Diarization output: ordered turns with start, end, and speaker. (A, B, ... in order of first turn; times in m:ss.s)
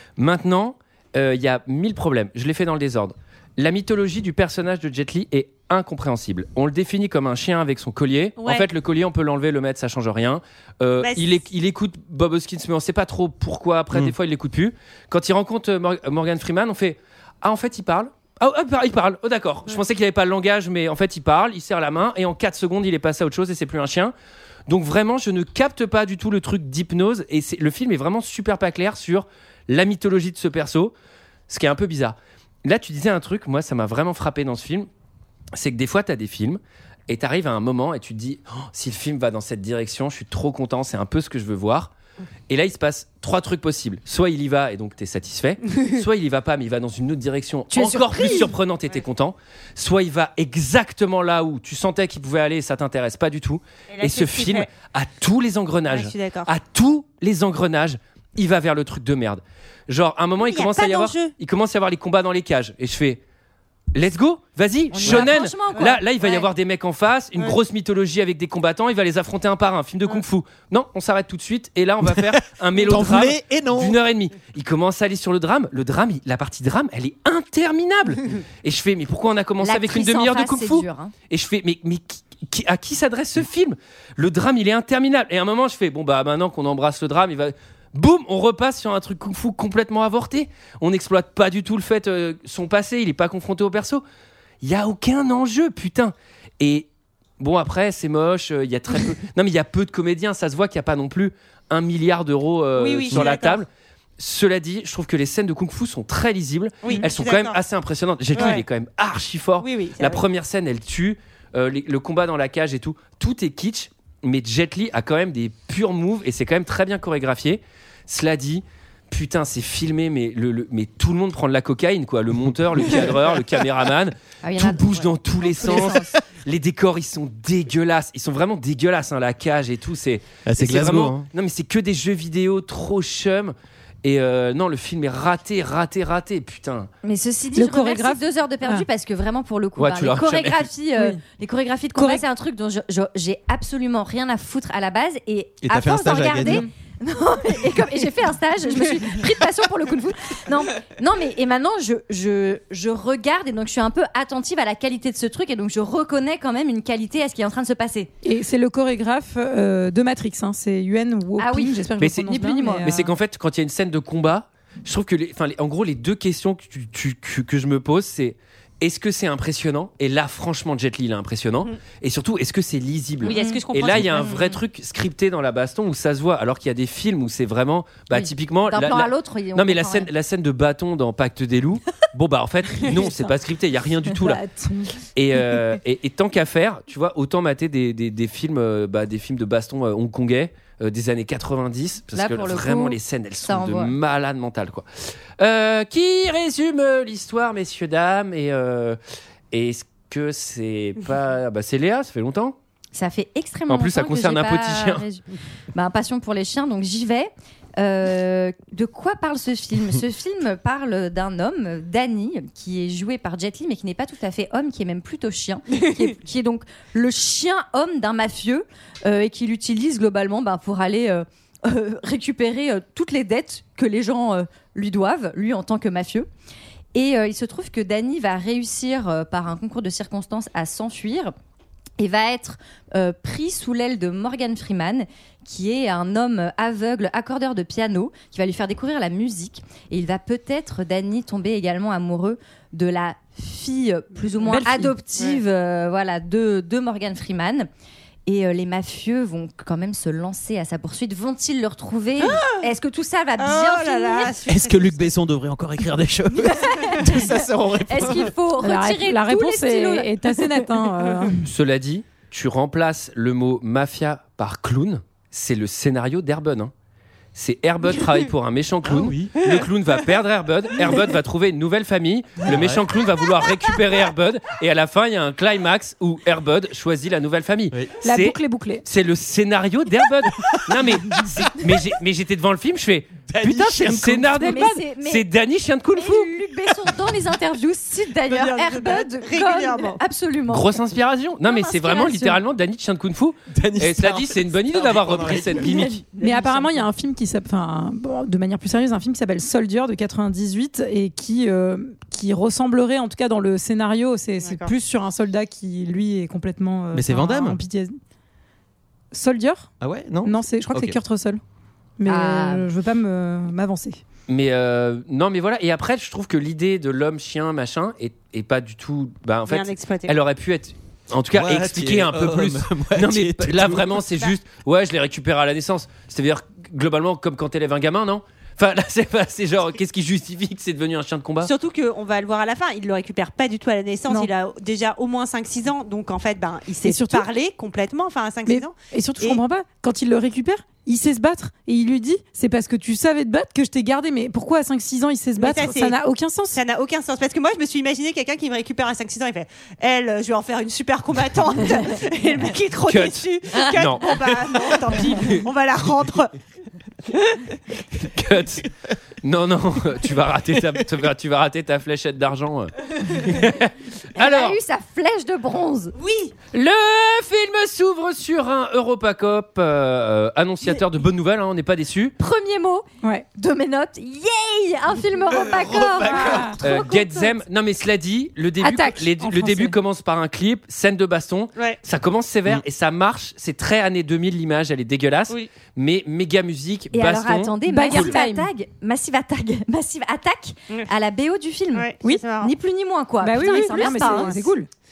0:00.2-0:24.1 A
0:08.4-0:08.7 B
0:11.0-0:11.4 B
0:24.7-0:30.9 A
0:31.5-0:34.9 A
0:35.5-0:41.9 A
0:42.5-1:03.2 A
0:47.7-0:48.6 C
0:53.9-0:54.7 B
0:55.9-0:56.5 B
1:00.4-1:01.3 B
1:03.9-1:34.0 A
1:04.9-1:06.3 D
1:05.7-1:06.4 B
1:12.0-1:14.0 E
1:19.6-1:21.1 D
1:34.6-1:36.9 A
1:37.4-2:16.9 A
1:42.8-1:43.6 B
1:46.8-1:47.6 B
1:48.3-1:48.6 B
1:49.6-1:50.2 B
2:04.4-2:06.1 D
2:10.5-2:11.3 E
2:17.0-2:38.1 D
2:17.5-2:18.9 C
2:19.8-2:20.7 A
2:21.0-2:21.2 C
2:22.0-2:22.2 C
2:25.6-2:26.6 E
2:26.4-2:26.7 C
2:38.2-2:43.1 C
2:41.4-2:43.0 D
2:42.0-3:04.4 A
2:53.2-2:54.6 B
2:53.2-2:54.0 D
2:58.1-3:00.1 D
3:04.2-3:04.9 C
3:05.2-3:14.9 A
3:12.1-3:13.9 D
3:15.4-3:19.0 A
3:19.5-3:22.6 A
3:22.9-3:46.3 D
3:23.7-3:25.0 A
3:47.0-3:51.3 D
3:52.0-4:07.7 D
4:04.4-4:05.0 C
4:08.3-4:14.4 D
4:12.2-4:12.7 B
4:13.4-4:15.1 B
4:14.5-4:18.4 E
4:16.3-4:20.7 D
4:18.6-4:21.5 C
4:21.4-4:26.7 A
4:27.4-4:46.3 A
4:28.8-4:29.4 E
4:32.4-4:32.8 E
4:38.0-4:38.8 C
4:40.4-4:41.7 E
4:43.3-4:44.4 E
4:44.3-4:44.8 C
4:44.4-4:45.3 D
4:46.0-4:50.7 D
4:48.3-4:50.0 B
4:50.5-4:56.0 A
4:51.4-4:52.4 D
4:53.5-4:55.9 E
4:56.2-4:56.9 B
4:56.2-5:08.0 C
5:04.4-5:04.7 B
5:06.9-5:07.6 E
5:09.1-5:09.7 C
5:09.8-5:11.0 E
5:10.2-5:11.4 C
5:12.0-5:14.0 C
5:12.1-5:12.7 D
5:14.3-5:31.5 A
5:19.5-5:20.2 B
5:21.3-5:24.0 E
5:31.4-5:39.4 B
5:36.8-5:37.3 C
5:38.5-5:46.6 C
5:45.4-5:46.0 B
5:46.5-5:56.4 B
5:52.9-5:54.4 A
5:57.9-6:04.6 A
6:04.2-6:06.0 D
6:06.0-6:06.3 B
6:06.5-6:12.2 A
6:12.2-6:12.9 D
6:13.0-6:13.3 C
6:13.4-6:17.4 D
6:15.3-6:16.6 E
6:16.1-6:16.6 C
6:16.6-6:28.2 A
6:18.6-6:19.8 C
6:26.9-6:34.5 D
6:27.7-6:28.5 C
6:31.7-6:32.5 B
6:33.2-6:34.7 C
6:33.7-6:34.4 B